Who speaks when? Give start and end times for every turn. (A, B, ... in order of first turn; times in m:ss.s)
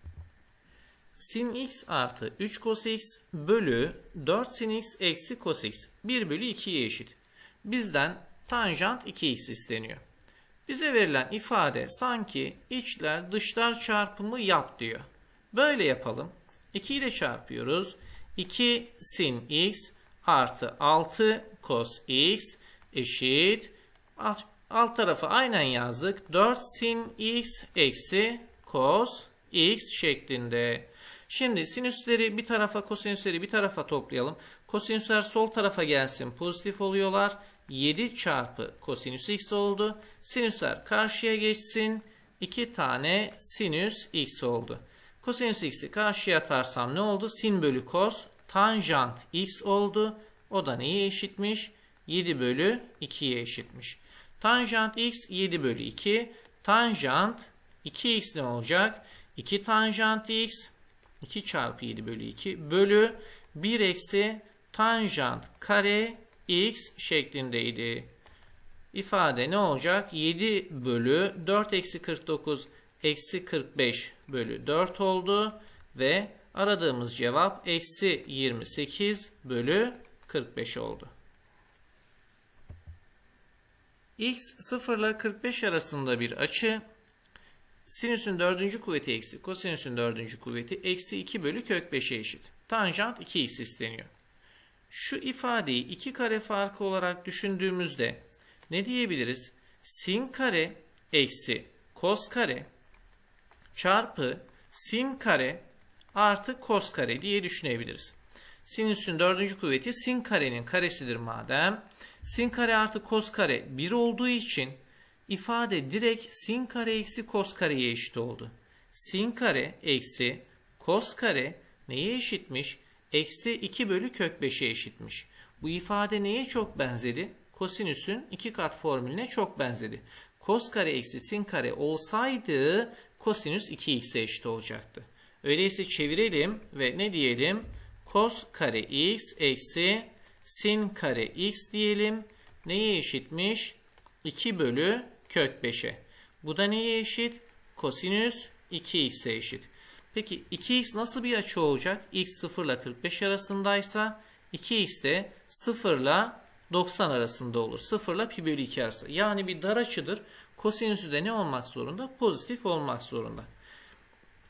0:01.2-0:10.0 A
0:10.7-1:08.1 A
1:08.9-1:21.1 A
1:24.2-1:26.8 A
1:27.9-1:34.1 A
1:34.9-1:42.7 A
1:43.7-2:43.5 A